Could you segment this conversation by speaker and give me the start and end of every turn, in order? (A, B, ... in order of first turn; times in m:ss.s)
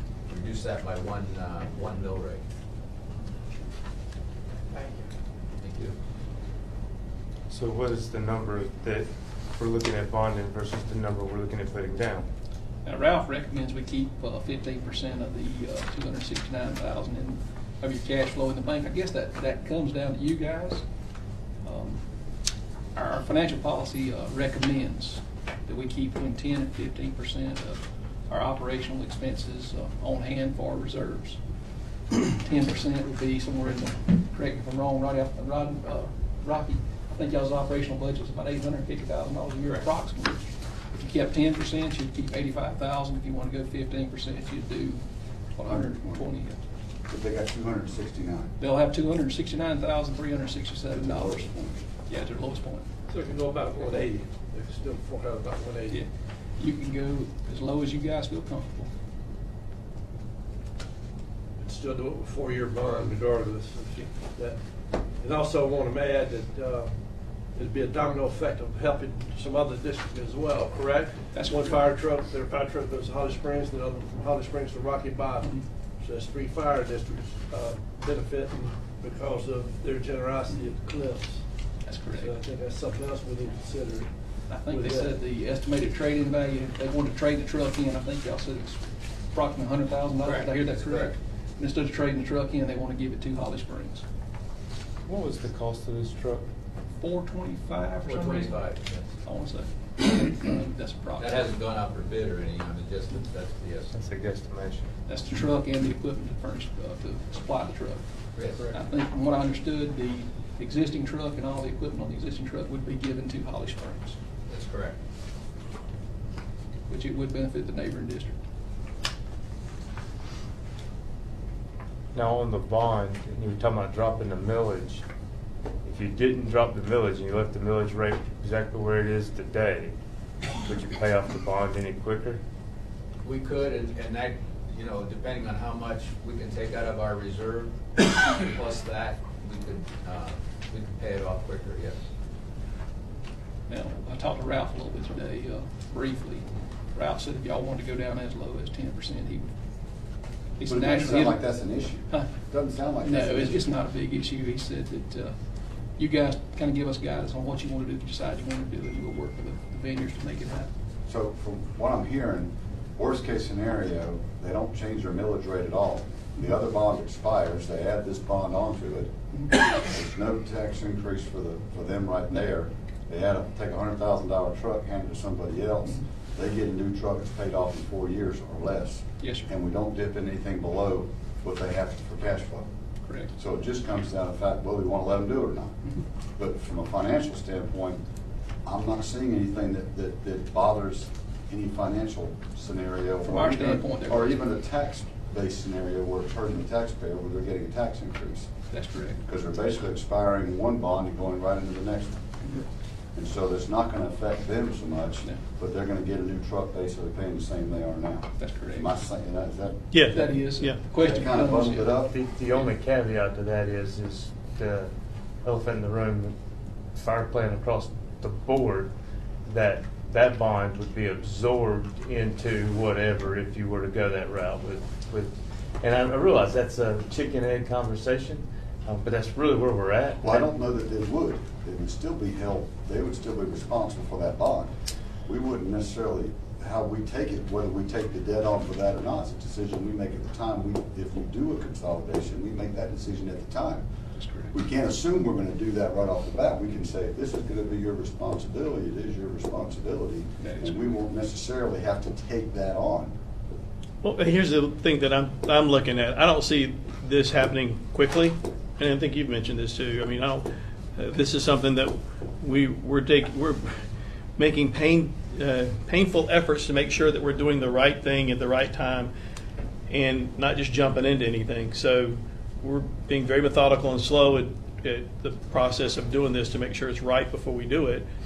0:00.3-0:02.4 A
0:05.6-0:06.0 A
0:07.5-0:12.3 B
0:12.8-0:20.8 C
0:21.6-0:22.0 C
0:23.0-0:31.4 C
0:32.1-0:46.6 C
0:45.7-0:46.2 D
0:47.1-0:48.5 D
0:48.6-0:51.5 C
0:50.9-0:51.8 D
0:52.0-0:52.9 C
0:53.1-0:56.0 E
0:55.9-0:58.9 C
1:01.6-1:04.6 E
1:05.1-1:21.4 E
1:11.4-1:11.8 C
1:21.8-1:22.3 C
1:22.1-1:25.1 E
1:24.5-1:34.0 C
1:30.2-1:31.1 A
1:35.1-1:36.5 B
1:37.0-1:38.7 C
1:38.0-1:39.1 A
1:39.2-1:41.5 C
1:41.2-1:43.9 A
1:43.9-1:44.9 B
1:45.1-1:54.2 C
1:48.4-1:48.7 A
1:54.5-1:55.0 A
1:56.9-1:58.4 C
2:02.1-2:05.0 B
2:05.8-2:10.0 B
2:10.6-2:12.4 B
2:13.2-2:22.0 A
2:23.7-2:29.5 C
2:30.6-2:31.5 C
2:30.6-2:33.7 D
2:33.0-2:35.4 C
2:36.0-2:40.7 C
2:41.1-3:02.7 D
2:59.2-2:59.5 C
3:03.0-3:03.3 C
3:03.4-3:05.8 D
3:06.4-3:08.0 D
3:08.7-3:18.5 D
3:13.2-3:14.4 C
3:18.7-3:19.2 C
3:19.3-3:22.2 D
3:23.2-3:29.8 D
3:28.4-3:29.0 C
3:29.9-3:30.9 F
3:30.1-3:32.0 C
3:30.9-3:32.1 D
3:32.0-3:34.9 B
3:35.4-3:36.4 B
3:37.0-3:38.9 B
3:39.5-3:50.5 B
3:50.2-3:54.7 D
3:55.3-4:03.8 D
4:04.2-4:04.5 C
4:04.5-4:13.1 D
4:10.4-4:10.8 C
4:14.0-4:23.8 F
4:24.4-4:29.1 F
4:29.9-4:38.1 F